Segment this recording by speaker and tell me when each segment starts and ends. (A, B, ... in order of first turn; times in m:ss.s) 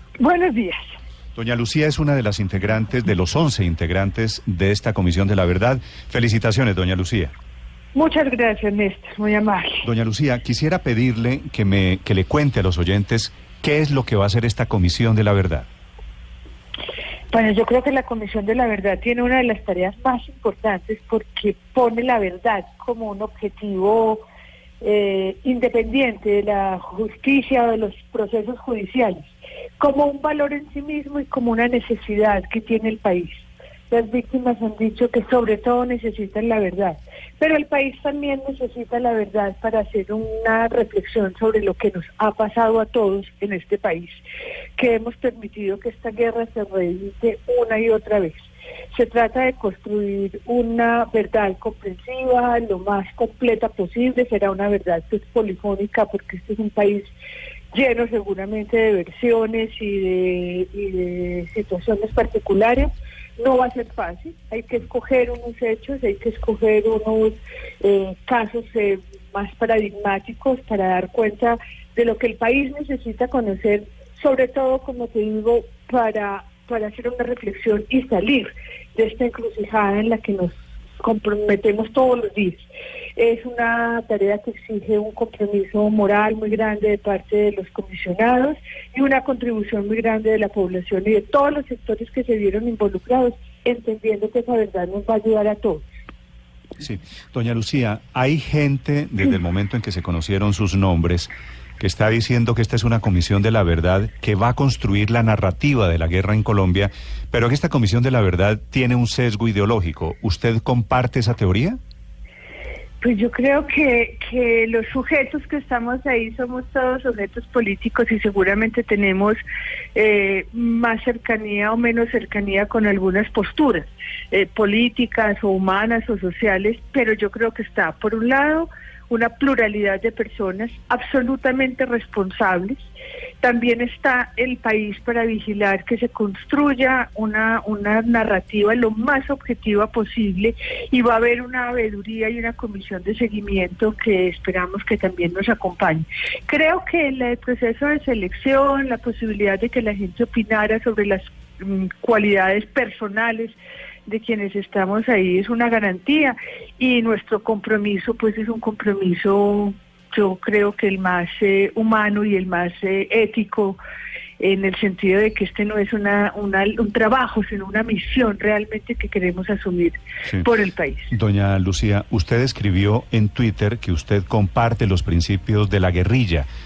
0:00.2-0:00.8 A
0:01.4-0:07.3 B
0:08.0-0:09.9 A
0:09.8-0:15.7 B
0:17.3-0:24.2 A
0:24.8-0:44.2 A
0:44.8-0:57.1 A
0:57.7-1:22.6 A
1:23.2-1:35.8 A
1:36.8-1:51.8 B
1:53.0-1:59.4 A
2:00.0-2:12.9 A
2:13.4-2:43.8 A
2:44.4-2:51.1 A
2:51.1-2:56.5 B